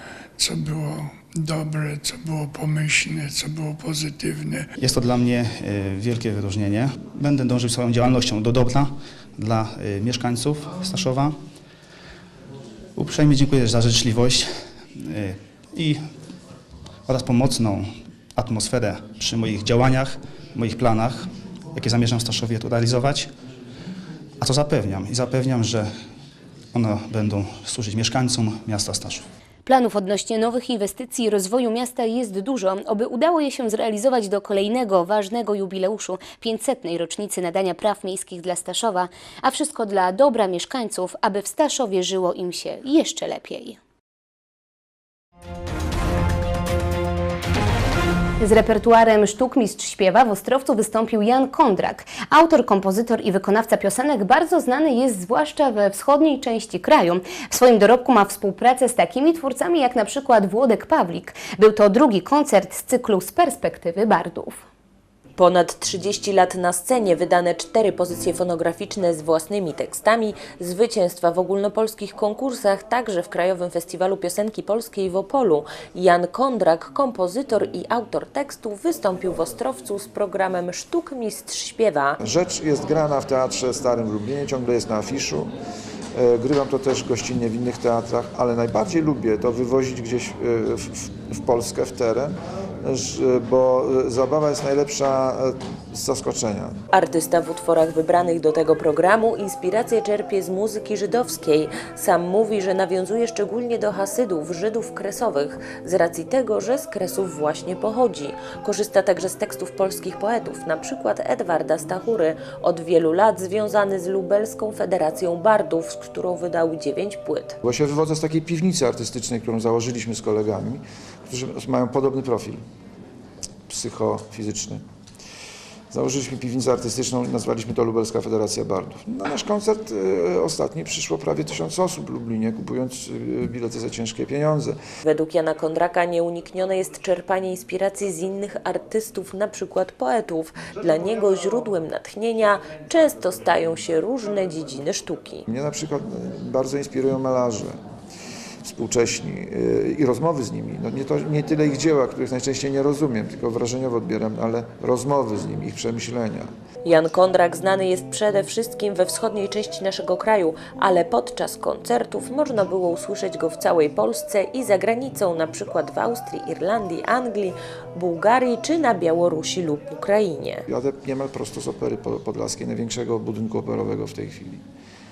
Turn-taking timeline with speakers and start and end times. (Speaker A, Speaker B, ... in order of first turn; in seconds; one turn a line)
Speaker A: 0.4-4.7
Speaker B: 4.8-11.4
Speaker B: 13.0-16.0
Speaker B: 17.1-23.3
Speaker B: 24.4-25.9
Speaker B: 26.7-29.3
Speaker C: 29.7-43.8
Speaker C: 48.4-64.6
Speaker D: 65.4-82.2
Speaker E: 82.2-85.5
Speaker E: 86.2-96.8
Speaker D: 96.9-117.6
Speaker E: 117.6-122.6
Speaker E: 123.7-124.8
Speaker E: 125.9-134.8
Speaker D: 135.1-145.4
Speaker E: 145.5-147.8
Speaker E: 148.6-156.5
Speaker D: 156.8-170.6
Speaker E: 170.7-174.6